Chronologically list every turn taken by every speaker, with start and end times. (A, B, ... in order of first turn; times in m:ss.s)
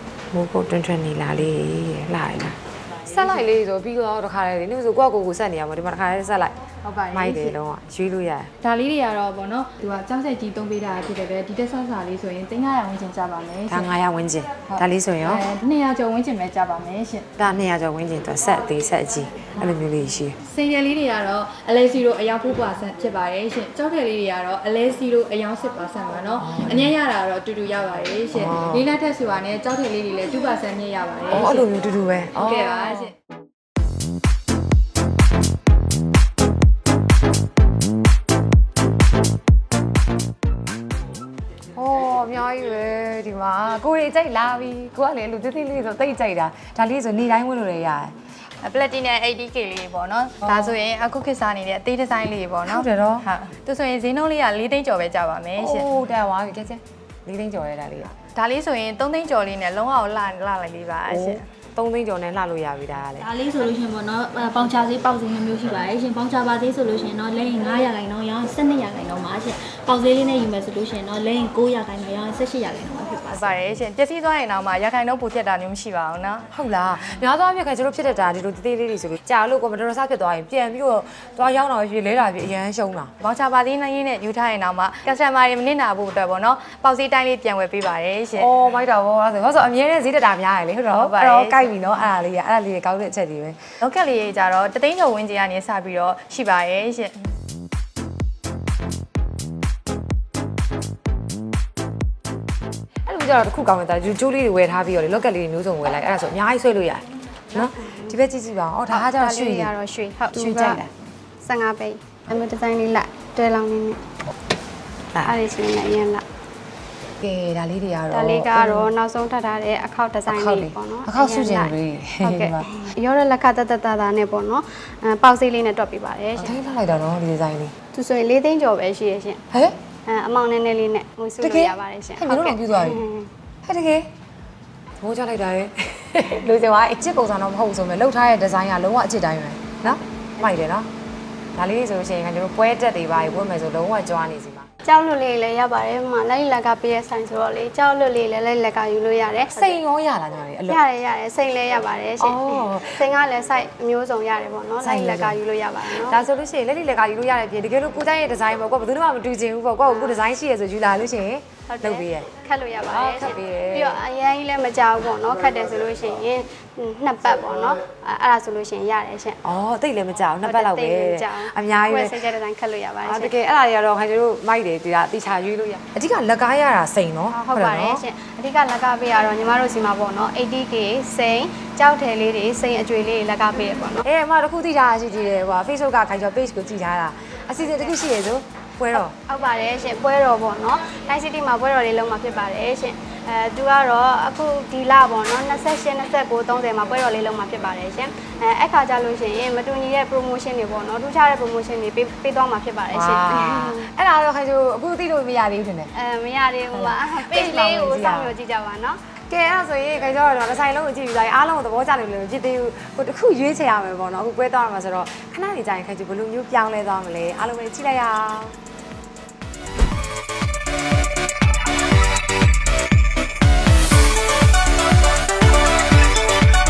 0:00.3-0:06.5 A
0:06.8-0:07.6 B
0:07.1-0:08.5 A
0:08.6-0:13.9 B
0:13.7-0:15.4 A
0:14.7-0:17.2 B
0:17.4-0:20.4 A
0:20.4-0:31.7 B
0:26.4-0:26.9 A
0:28.3-0:28.8 A
0:31.3-0:33.1 A
0:32.4-0:33.1 B
0:41.7-0:48.1 A
0:48.6-0:55.9 B
0:52.6-0:53.3 A
0:55.6-0:58.1 A
0:58.3-1:01.4 B
1:01.1-1:03.3 A
1:03.2-1:13.7 C
1:13.3-1:16.5 B
1:16.5-1:23.1 A
1:23.2-1:28.5 B
1:28.3-1:33.6 A
1:31.0-1:31.6 B
1:33.8-1:37.2 B
1:43.0-1:49.7 A
1:47.5-1:48.1 D
1:48.9-1:50.8 D
1:50.3-1:50.9 A
1:51.4-1:54.0 D
1:55.2-1:56.2 D
1:57.2-1:58.9 A
1:58.1-2:06.5 D
2:00.3-2:02.8 A
2:06.4-2:07.7 A
2:07.9-2:09.4 D
2:09.5-2:09.8 A
2:10.1-2:13.3 D
2:11.4-2:13.0 A
2:13.6-2:14.1 A
2:15.0-2:20.9 A
2:21.5-2:24.7 A
2:24.8-2:29.8 D
2:29.5-2:30.8 A
2:30.7-2:36.2 D
2:32.2-2:33.0 A
2:34.8-2:35.4 A
2:35.9-2:42.3 A
2:41.7-2:49.4 D
2:42.9-2:44.0 A
2:49.4-2:52.2 A
2:50.4-2:53.3 D
2:53.0-2:58.0 A
2:57.3-3:04.0 D
3:04.0-3:09.1 A
3:08.9-3:23.9 D
3:22.9-3:25.9 A
3:25.9-3:29.0 D
3:26.7-3:28.3 A
3:29.3-3:38.6 A